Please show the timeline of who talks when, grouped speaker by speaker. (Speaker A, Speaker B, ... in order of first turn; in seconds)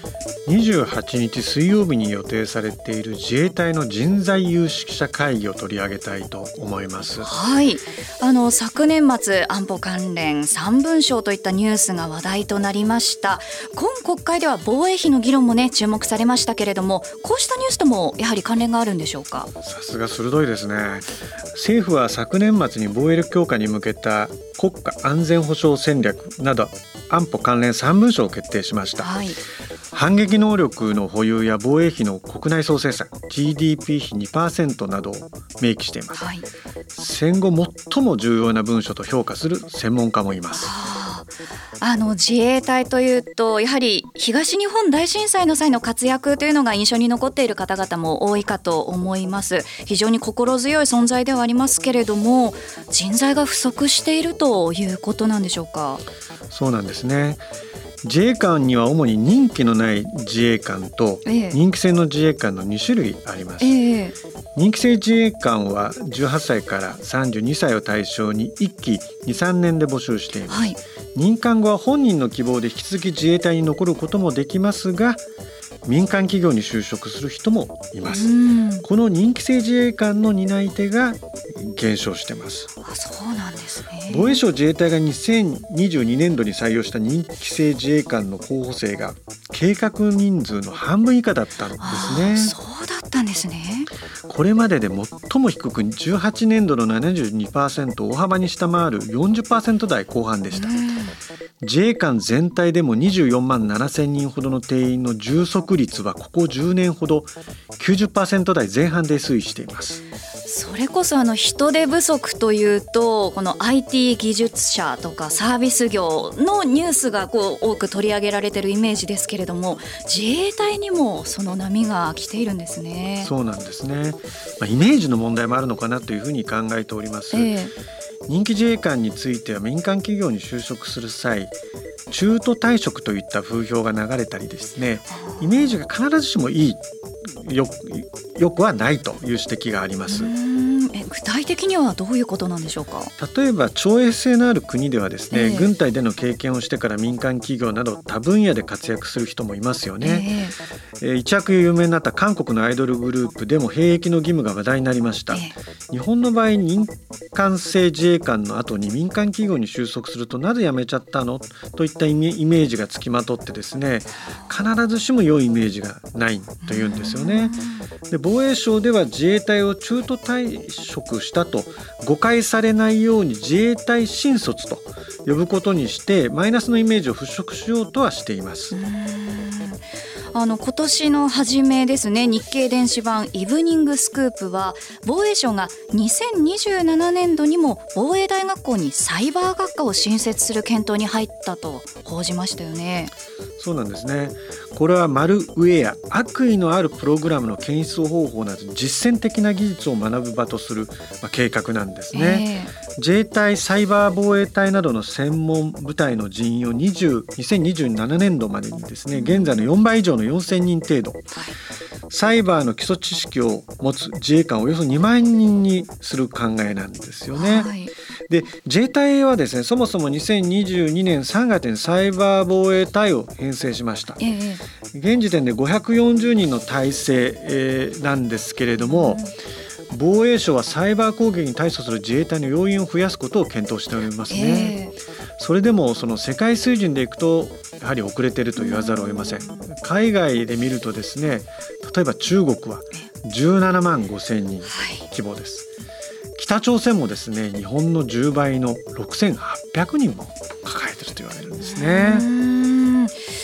Speaker A: 0.5-7.3, 19.6-29.1, 29.9-36.2, 36.9-40.7, 56.5-57.4, 58.0-63.8, 64.5-75.2, 75.8-82.7, 84.1-92.5, 94.3-100.8, 101.6-110.0, 123.2-127.5, 128.3-131.5, 132.1-140.3, 143.2-150.3, 151.0-178.9, 193.6-211.2, 212.1-217.7, 218.3-224.2, 224.9-229.2, 229.9-234.8, 235.4-245.7, 246.3-252.2
Speaker B: 7.2-19.5, 29.0-29.4, 36.1-36.5, 40.6-41.3, 41.8-56.0, 61.2-61.6, 63.6-64.1, 70.5-70.8, 78.0-78.8, 82.8-84.4, 91.8-93.9, 100.5-101.1, 110.5-123.3, 127.3-127.7, 140.1-143.1, 145.3-145.7, 150.0-150.5, 166.6-167.8, 178.7-193.1, 202.1-202.7, 217.3-217.9, 224.2-224.6, 234.3-234.9, 244.7-245.0, 251.6-253.2